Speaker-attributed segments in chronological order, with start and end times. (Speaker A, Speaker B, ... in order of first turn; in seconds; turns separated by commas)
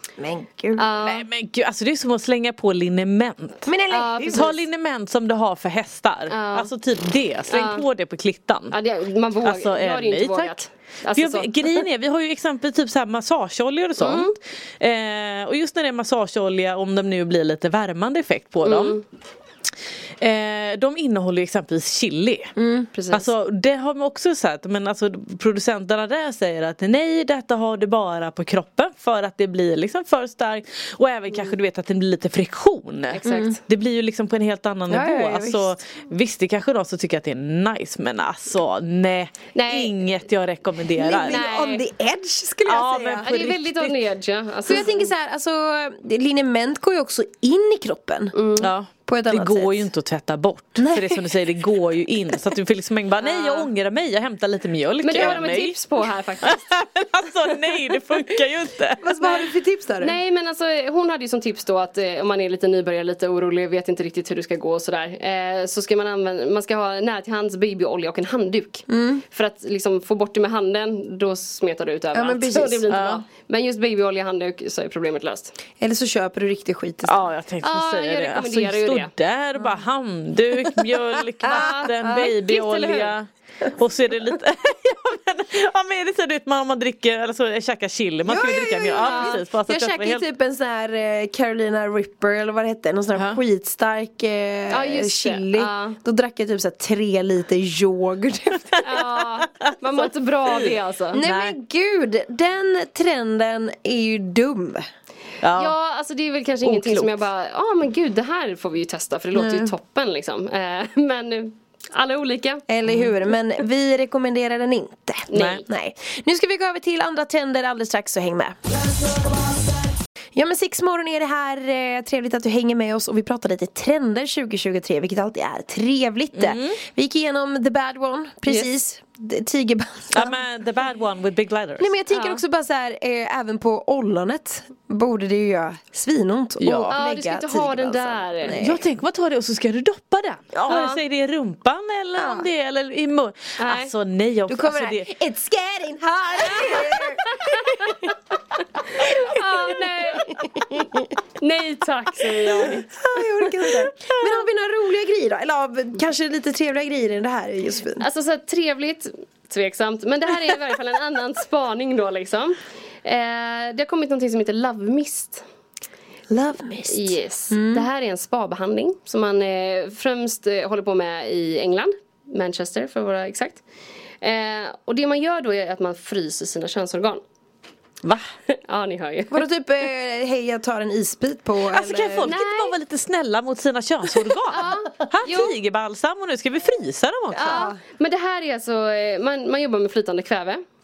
Speaker A: 0.2-0.9, Speaker B: 0.8-1.3, Speaker C: 1.0-3.7, Speaker A: 3.6-4.5, Speaker B: 3.9-4.6, Speaker C: 4.3-8.8, Speaker B: 6.3-6.7, Speaker B: 7.5-7.8, Speaker B: 8.7-11.8, Speaker C: 9.4-10.6, Speaker C: 11.2-19.0, Speaker B: 14.0-14.3, Speaker B: 18.6-19.0, Speaker C: 20.2-22.5, Speaker A: 22.6-22.9, Speaker B: 22.9-23.3, Speaker C: 23.1-41.4, Speaker B: 33.1-33.6, Speaker A: 33.2-33.6, Speaker A: 34.9-35.8, Speaker B: 39.5-40.0, Speaker A: 41.0-43.3, Speaker B: 41.3-41.8, Speaker C: 42.7-44.0, Speaker B: 43.2-45.1, Speaker A: 44.7-48.3, Speaker B: 48.3-48.7, Speaker C: 48.6-55.8, Speaker A: 49.1-49.9, Speaker A: 50.8-51.3, Speaker B: 53.2-53.7, Speaker B: 55.0-56.6, Speaker A: 55.1-55.4, Speaker C: 56.4-59.2, Speaker A: 59.0-60.2, Speaker B: 59.2-59.5, Speaker B: 60.0-75.5, Speaker A: 68.9-69.2, Speaker A: 72.1-72.9, Speaker C: 72.9-73.2, Speaker A: 75.8-77.2, Speaker C: 77.0-90.3, Speaker B: 77.6-79.1, Speaker A: 81.4-82.3, Speaker B: 81.5-83.2, Speaker A: 88.3-98.9, Speaker B: 89.0-89.4, Speaker C: 93.2-93.4, Speaker B: 94.7-96.0, Speaker B: 98.8-101.2, Speaker C: 100.5-101.6, Speaker A: 101.1-104.8, Speaker C: 105.4-105.7, Speaker B: 105.5-112.6, Speaker C: 106.7-107.2, Speaker A: 109.3-109.7, Speaker A: 112.7-118.6, Speaker C: 112.9-113.1, Speaker B: 115.3-115.6, Speaker C: 115.3-115.6, Speaker A: 120.3-130.4, Speaker C: 126.3-126.8, Speaker C: 130.1-131.9, Speaker A: 131.8-138.8, Speaker B: 132.1-132.4, Speaker C: 136.6-137.0, Speaker B: 136.9-138.6, Speaker C: 138.6-145.1, Speaker A: 140.5-140.8, Speaker B: 140.7-141.0, Speaker A: 142.2-142.5, Speaker B: 143.6-143.9, Speaker A: 144.5-148.1, Speaker B: 146.4-148.1, Speaker B: 148.9-150.4, Speaker A: 149.0-151.1, Speaker B: 151.4-152.9, Speaker A: 152.5-158.1, Speaker C: 153.5-154.4, Speaker B: 158.0-165.4, Speaker A: 166.3-167.9, Speaker B: 166.9-173.6, Speaker B: 174.2-177.2, Speaker B: 178.5-179.4, Speaker A: 179.3-182.3, Speaker C: 181.7-187.7, Speaker B: 182.2-182.8, Speaker B: 184.5-185.6, Speaker B: 187.3-190.6, Speaker A: 187.5-187.8